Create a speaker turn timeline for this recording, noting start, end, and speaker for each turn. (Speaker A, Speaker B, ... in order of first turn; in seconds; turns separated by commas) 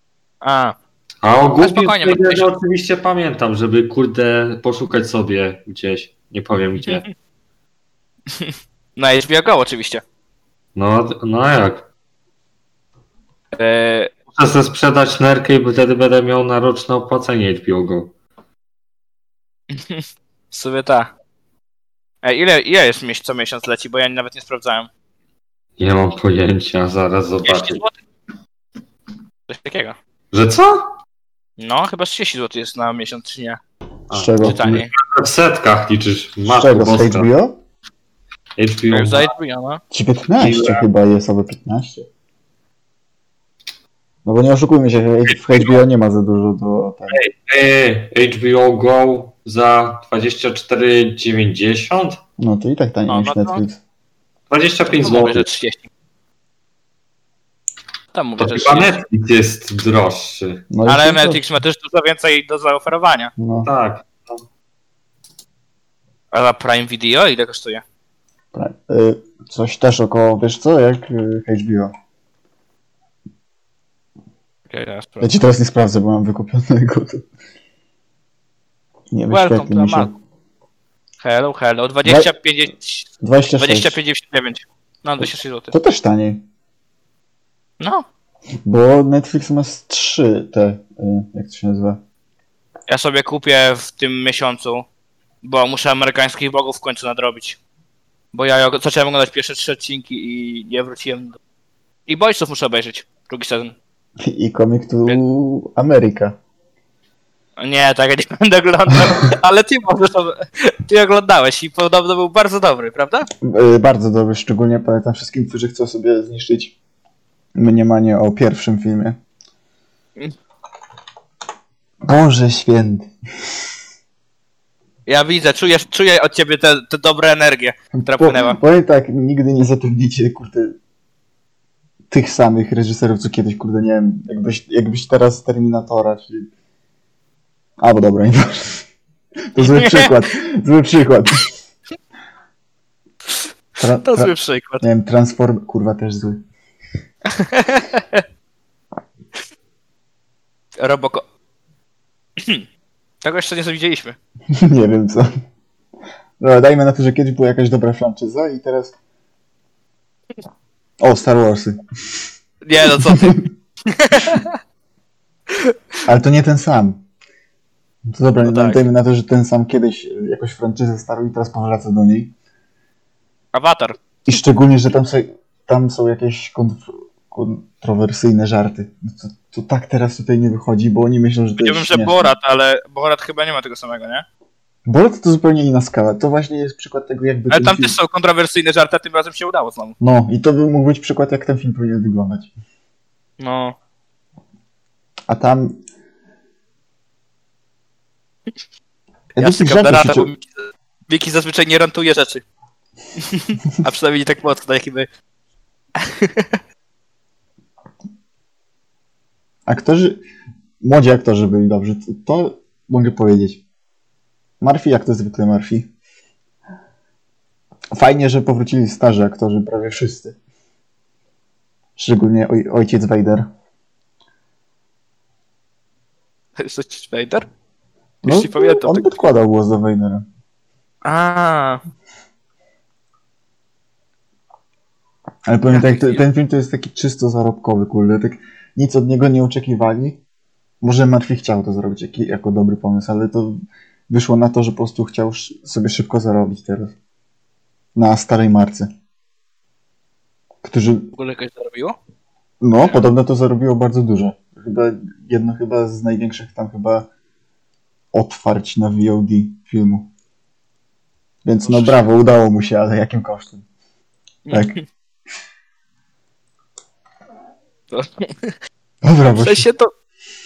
Speaker A: 0.4-0.8, Speaker B: 1.2-7.0, Speaker A: 1.6-2.5, Speaker A: 8.3-10.0, Speaker B: 10.8-11.9, Speaker A: 13.5-14.1, Speaker B: 14.3-18.1, Speaker A: 19.7-21.1, Speaker A: 22.2-24.9, Speaker B: 25.8-27.8, Speaker A: 27.4-28.0, Speaker A: 29.5-30.0, Speaker B: 30.3-30.9, Speaker A: 31.6-33.6, Speaker B: 34.1-37.3, Speaker C: 34.1-34.8, Speaker A: 34.4-34.9, Speaker C: 36.5-37.6, Speaker B: 38.6-39.3, Speaker A: 38.9-39.8, Speaker C: 39.9-42.1, Speaker B: 40.4-40.8, Speaker C: 44.2-47.2, Speaker B: 47.1-52.2, Speaker C: 52.4-53.8, Speaker A: 53.1-53.6, Speaker B: 54.5-55.5, Speaker A: 54.9-55.9, Speaker A: 58.1-59.0, Speaker B: 58.4-60.6, Speaker C: 60.7-61.4, Speaker A: 60.9-63.3, Speaker C: 63.4-63.7, Speaker B: 63.6-64.4, Speaker A: 66.3-67.8, Speaker C: 68.5-71.9, Speaker A: 74.7-75.3, Speaker C: 75.2-77.2, Speaker C: 79.1-80.2, Speaker A: 79.3-80.1, Speaker A: 81.2-85.7, Speaker C: 82.0-82.3, Speaker C: 83.2-84.0, Speaker C: 85.2-86.4, Speaker A: 87.8-88.0, Speaker C: 88.6-92.0, Speaker A: 92.9-94.8, Speaker A: 95.4-97.6, Speaker A: 98.3-101.4, Speaker A: 102.1-103.7, Speaker C: 104.2-106.4, Speaker A: 107.6-113.3, Speaker C: 113.4-116.7, Speaker C: 117.5-119.2, Speaker C: 122.0-123.1, Speaker A: 125.0-128.6, Speaker C: 128.0-130.8, Speaker C: 132.1-136.5, Speaker C: 137.8-138.8, Speaker C: 139.5-141.5, Speaker A: 139.6-140.2, Speaker C: 143.8-146.4, Speaker A: 144.0-144.8, Speaker A: 147.3-148.2, Speaker A: 150.8-151.2, Speaker A: 153.2-154.2, Speaker C: 154.5-155.3, Speaker C: 156.4-158.9, Speaker C: 161.0-161.8, Speaker A: 162.6-164.6, Speaker C: 163.0-163.4, Speaker C: 166.1-167.0, Speaker C: 168.1-172.3, Speaker A: 168.4-168.8, Speaker A: 173.5-174.0, Speaker C: 174.2-182.3, Speaker A: 181.6-184.2, Speaker C: 184.8-187.9, Speaker A: 187.5-189.9, Speaker C: 190.0-192.5, Speaker A: 193.4-193.8, Speaker C: 195.3-195.8, Speaker C: 199.3-200.3, Speaker A: 199.4-202.4, Speaker A: 203.3-205.1, Speaker A: 206.0-206.6, Speaker C: 209.7-210.2, Speaker C: 210.8-213.6, Speaker C: 214.6-215.9, Speaker C: 217.9-220.4, Speaker C: 222.0-223.5, Speaker A: 226.6-227.5, Speaker C: 228.2-230.2, Speaker A: 228.2-229.2, Speaker A: 231.0-231.8, Speaker C: 235.4-240.2, Speaker A: 235.7-236.2, Speaker C: 240.8-246.9, Speaker C: 247.9-248.9, Speaker C: 250.6-251.1, Speaker A: 251.1-251.9, Speaker C: 252.6-257.1, Speaker C: 258.1-260.1, Speaker C: 261.4-263.6, Speaker A: 261.6-262.1, Speaker A: 264.5-264.8, Speaker C: 264.5-264.8, Speaker A: 267.9-268.5, Speaker C: 269.0-269.6, Speaker A: 269.2-269.9